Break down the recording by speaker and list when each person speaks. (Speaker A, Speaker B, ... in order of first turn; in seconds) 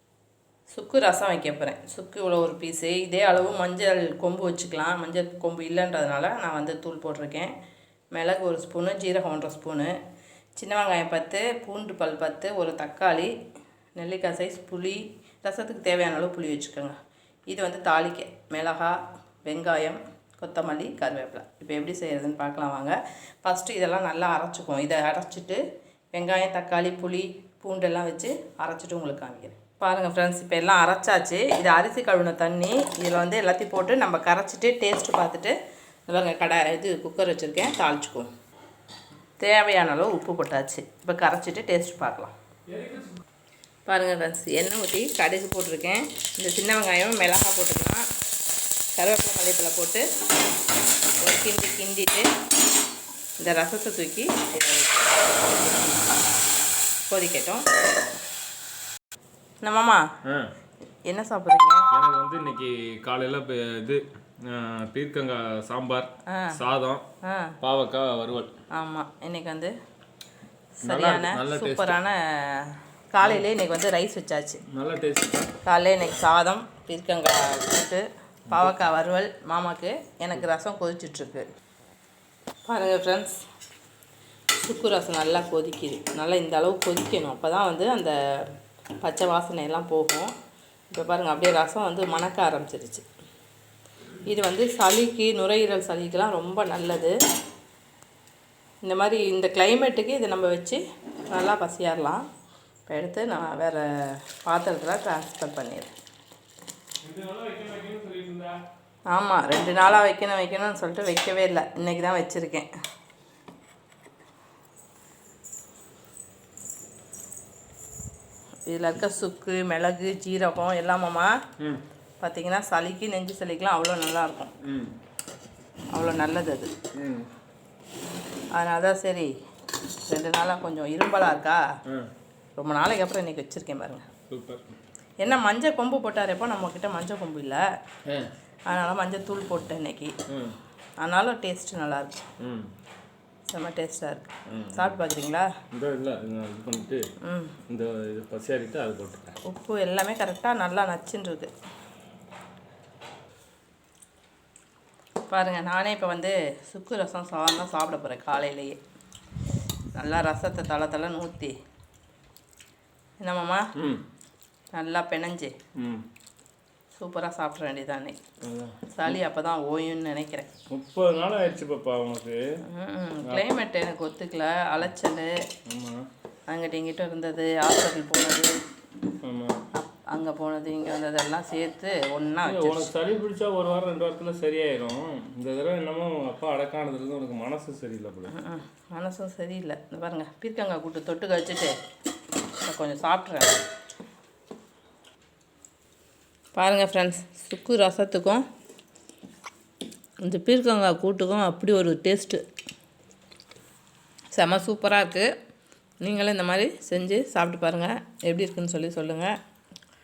Speaker A: 0.7-7.5, 8.1-9.9, 10.6-13.3, 14.0-16.9, 17.5-25.6, 26.1-35.5, 36.1-38.3, 39.4-42.3, 43.9-48.0, 49.0-50.0, 51.2-52.3, 53.4-55.1, 57.1-57.6, 59.6-60.0, 61.1-61.8, 66.3-66.5, 67.2-67.5, 68.7-69.7, 70.8-74.6, 75.6-81.5, 82.7-83.4, 84.6-88.5, 89.0-90.3, 90.9-93.0, 94.3-97.1, 98.8-100.8, 101.3-102.2, 102.9-105.9, 109.1-112.7, 118.7-121.3, 122.2-124.5, 125.9-126.7, 128.5-129.3, 130.1-131.6, 132.6-134.1, 135.2-137.6, 138.7-140.1, 141.0-142.2, 143.5-145.5, 147.2-147.6, 149.5-151.5, 155.3-158.8, 159.9-161.5, 163.2-163.7, 164.7-165.5, 166.9-168.2, 168.9-170.5, 172.6-175.4, 176.5-178.5, 179.7-182.9, 188.3-191.7, 192.6-193.6, 196.6-198.4, 200.2-202.4, 204.3-205.3, 206.0-209.3
Speaker B: 42.7-43.1, 60.2-60.5, 61.9-67.0, 67.6-68.5, 70.8-72.0, 74.7-75.5, 107.0-108.6, 124.6-124.9, 126.9-127.3, 134.3-134.6, 140.3-140.6, 142.4-142.7, 144.5-144.9, 145.7-147.0, 147.7-149.4, 163.8-164.0, 165.8-166.1, 168.4-169.2, 170.7-172.4, 175.7-176.1, 179.2-179.6, 182.5-188.3